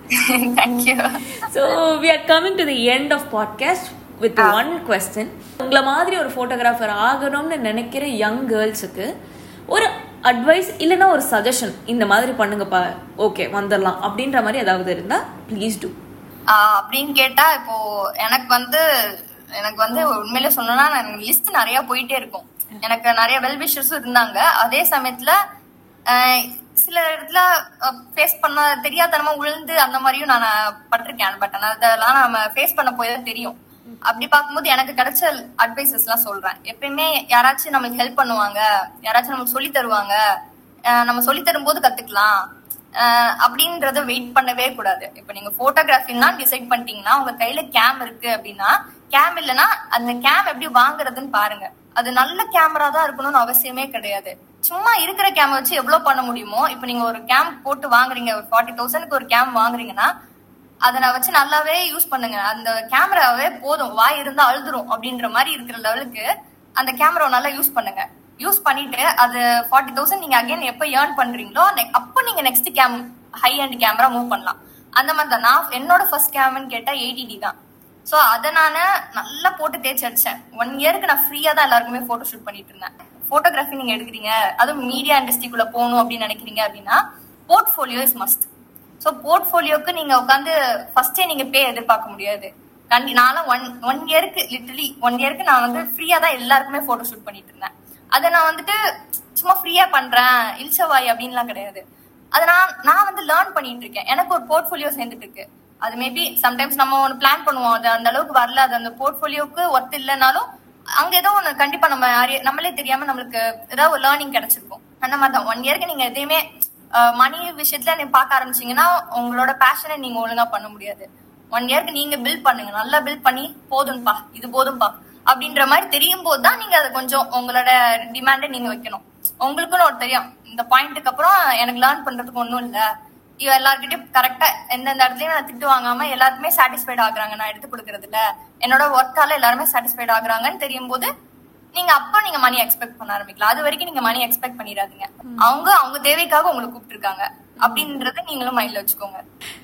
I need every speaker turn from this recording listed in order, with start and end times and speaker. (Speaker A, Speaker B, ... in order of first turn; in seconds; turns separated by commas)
Speaker A: 0.2-1.2, Speaker B: 1.4-9.1, Speaker A: 4.4-4.7, Speaker B: 9.7-15.9, Speaker A: 16.5-18.8, Speaker A: 19.6-25.4, Speaker A: 26.1-33.5, Speaker A: 34.1-40.2, Speaker A: 40.9-42.4, Speaker A: 43.0-60.1, Speaker A: 60.9-66.3, Speaker A: 66.8-77.5, Speaker A: 78.1-88.5, Speaker A: 89.0-98.8, Speaker A: 99.4-101.8, Speaker A: 102.3-110.4, Speaker A: 111.0-116.4, Speaker A: 117.0-132.8, Speaker A: 133.4-141.1, Speaker A: 141.7-149.2, Speaker B: 147.6-147.9